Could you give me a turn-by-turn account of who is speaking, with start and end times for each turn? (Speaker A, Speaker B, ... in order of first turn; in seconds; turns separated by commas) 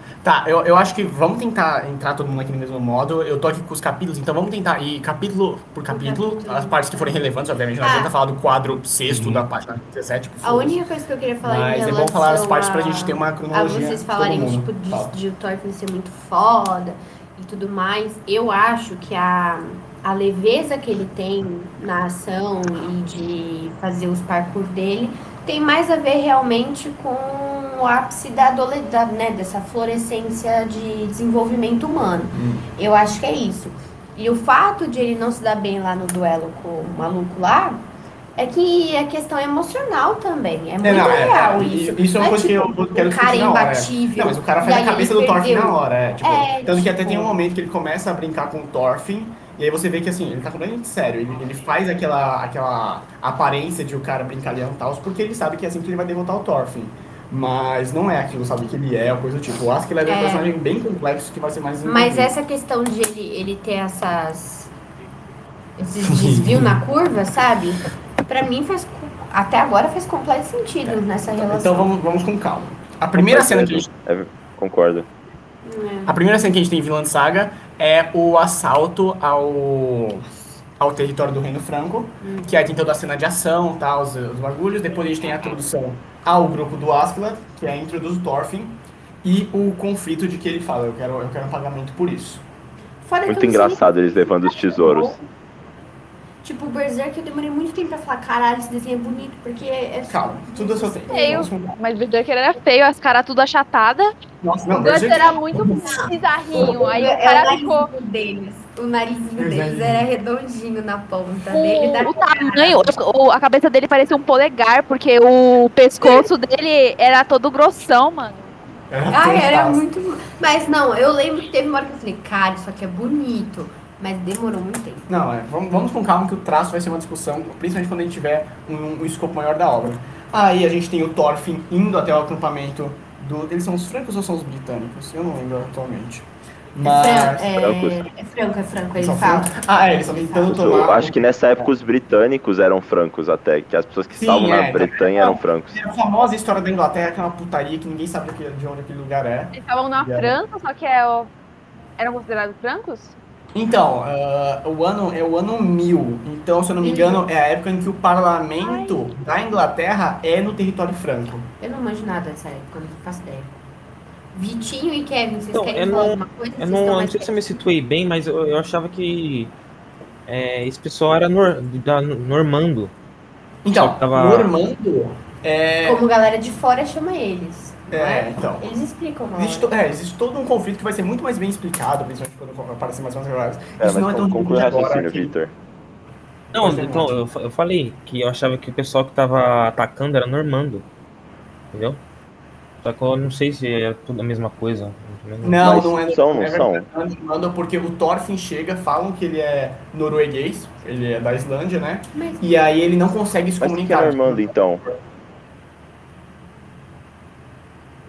Speaker A: 0.2-10.8, Speaker B: 5.9-7.2, Speaker B: 7.8-8.1, Speaker B: 10.4-47.4, Speaker A: 11.4-15.2, Speaker A: 32.3-32.7, Speaker A: 40.8-62.3, Speaker B: 60.0-60.6, Speaker B: 61.8-64.7, Speaker B: 65.8-71.9, Speaker A: 66.0-66.8, Speaker A: 70.8-73.9, Speaker C: 73.2-75.1, Speaker B: 75.6-76.2, Speaker A: 76.1-92.4, Speaker B: 82.2-82.6, Speaker B: 93.0-95.2, Speaker C: 93.3-95.2, Speaker B: 96.4-101.5, Speaker A: 100.1-101.8, Speaker D: 101.1-104.1, Speaker A: 104.4-106.8, Speaker D: 104.7-107.9, Speaker B: 105.8-112.8, Speaker A: 109.4-110.1, Speaker D: 111.5-118.5, Speaker A: 118.9-119.8, Speaker B: 119.1-125.1, Speaker A: 125.1-137.6, Speaker B: 136.8-141.0, Speaker C: 137.5-138.0, Speaker A: 139.0-141.7, Speaker C: 140.5-145.8, Speaker A: 144.2-150.4, Speaker D: 149.5-151.3, Speaker D: 152.0-153.2, Speaker A: 153.6-161.5, Speaker B: 156.8-157.3, Speaker B: 161.6-163.5, Speaker B: 164.3-167.6, Speaker E: 165.5-169.5, Speaker E: 170.3-172.9, Speaker A: 173.7-176.0, Speaker E: 173.8-174.5, Speaker B: 175.8-179.7, Speaker A: 177.9-178.8, Speaker A: 179.3-185.3, Speaker C: 183.8-185.6, Speaker E: 186.5-190.9, Speaker A: 186.6-187.2, Speaker E: 191.7-192.0, Speaker E: 192.8-195.7, Speaker A: 195.4-205.0, Speaker C: 195.6-196.9, Speaker B: 202.2-202.5, Speaker C: 203.6-204.8